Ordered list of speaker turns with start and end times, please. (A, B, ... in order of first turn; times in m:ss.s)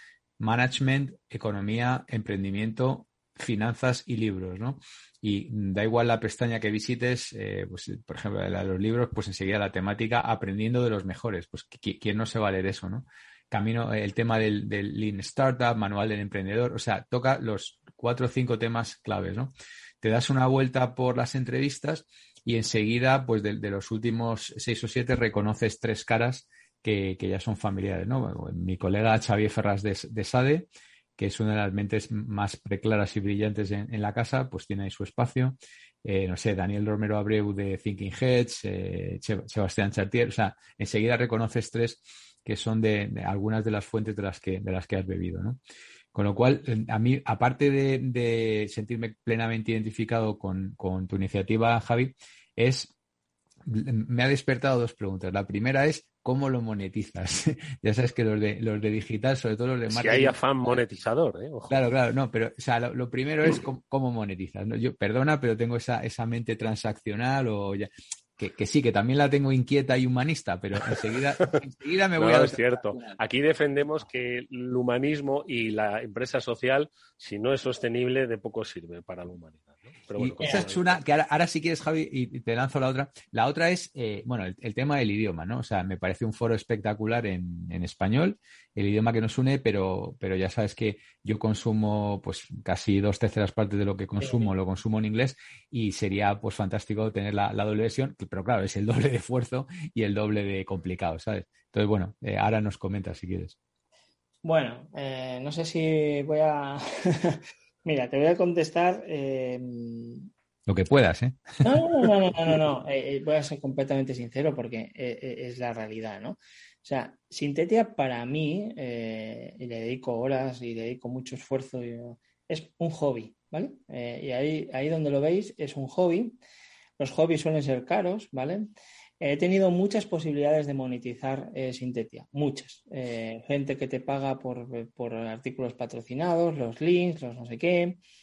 0:00.4-0:30.7 A
0:31.2-0:45.6 A
0:46.1-0:52.9 A
0:53.6-1:00.8 A
0:59.9-1:01.8 B
1:01.7-1:13.2 A
1:12.2-1:21.0 B
1:20.2-1:43.6 A
1:34.2-1:34.5 C
1:44.4-1:50.3 C
1:50.7-1:52.1 A
1:51.6-2:06.4 C
2:07.0-2:08.7 C
2:09.2-2:18.0 C